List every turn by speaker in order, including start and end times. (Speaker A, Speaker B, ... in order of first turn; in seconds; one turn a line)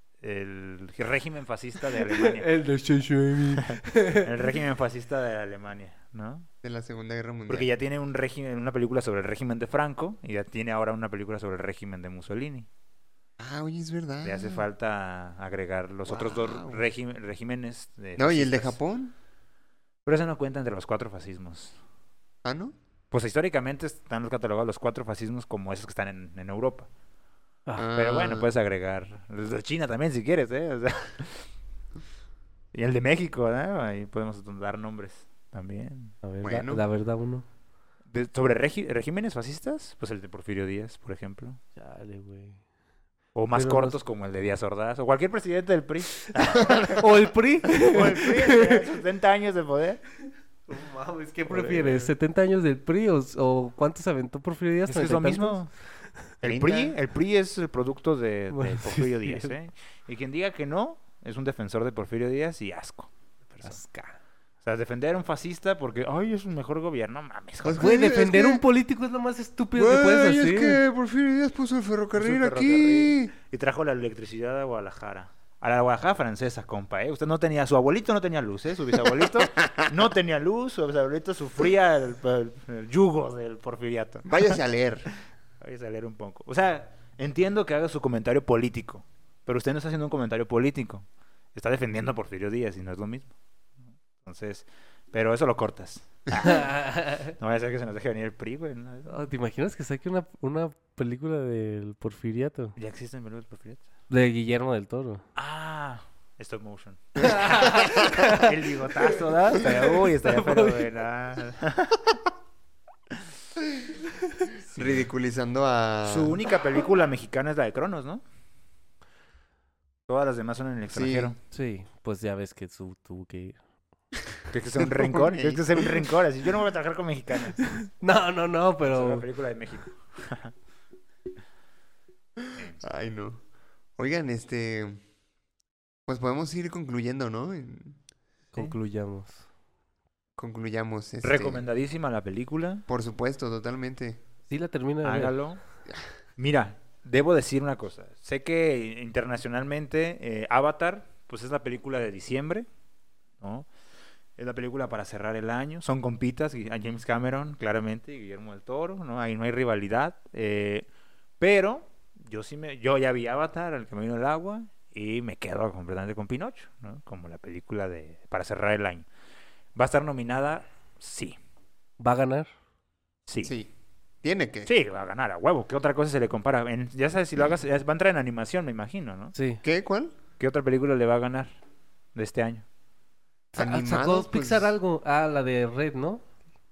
Speaker A: 0.2-2.5
Speaker B: 2.0-4.3
Speaker A: 3.5-6.5
Speaker C: 6.6-7.7
Speaker A: 7.5-12.7
Speaker C: 13.4-14.7
Speaker A: 14.2-18.8
Speaker C: 16.1-16.8
Speaker C: 18.2-19.1
Speaker A: 20.0-21.8
Speaker C: 22.4-22.7
Speaker A: 23.1-26.9
Speaker C: 27.8-28.5
Speaker A: 27.9-31.5
Speaker A: 32.7-36.1
Speaker B: 36.2-37.4
Speaker C: 36.4-36.8
Speaker A: 38.1-41.6
Speaker B: 41.8-42.6
Speaker A: 43.3-50.0
Speaker B: 43.5-44.0
Speaker B: 46.9-48.9
Speaker B: 50.7-55.6
Speaker A: 51.5-52.1
Speaker A: 54.9-55.7
Speaker A: 56.4-63.8
Speaker C: 56.4-56.9
Speaker B: 58.5-59.5
Speaker B: 63.6-64.2
Speaker A: 64.6-68.0
Speaker C: 67.6-68.6
Speaker B: 67.8-70.8
Speaker C: 69.8-73.3
Speaker A: 72.1-84.5
Speaker C: 79.4-79.9
Speaker C: 84.3-85.1
Speaker A: 85.6-93.3
Speaker A: 94.2-99.1
Speaker B: 96.4-97.3
Speaker B: 99.1-102.8
Speaker A: 102.8-103.8
Speaker B: 104.1-105.2
Speaker A: 105.3-112.2
Speaker B: 107.2-108.5
Speaker B: 109.7-110.8
Speaker A: 114.7-115.0
Speaker C: 114.7-116.4
Speaker A: 116.0-118.2
Speaker A: 120.1-121.4
Speaker C: 120.9-121.3
Speaker B: 121.5-123.6
Speaker C: 124.3-126.1
Speaker A: 124.5-127.6
Speaker B: 127.6-129.2
Speaker A: 128.8-130.5
Speaker C: 132.4-133.4
Speaker C: 134.0-135.0
Speaker C: 136.1-138.0
Speaker B: 138.5-139.4
Speaker C: 140.4-141.6
Speaker A: 141.2-142.8
Speaker C: 142.9-144.2
Speaker B: 144.5-145.3
Speaker A: 145.0-145.6
Speaker A: 146.4-152.7
Speaker A: 153.4-153.7
Speaker A: 154.4-160.8
Speaker A: 161.4-169.1
Speaker A: 169.8-171.3
Speaker B: 172.0-172.5
Speaker A: 173.3-173.5
Speaker C: 173.4-173.7
Speaker C: 174.2-174.7
Speaker A: 174.7-179.3
Speaker B: 179.3-179.6
Speaker C: 179.6-180.1
Speaker A: 180.4-181.5
Speaker A: 182.1-182.6
Speaker C: 183.5-184.7
Speaker B: 183.5-186.2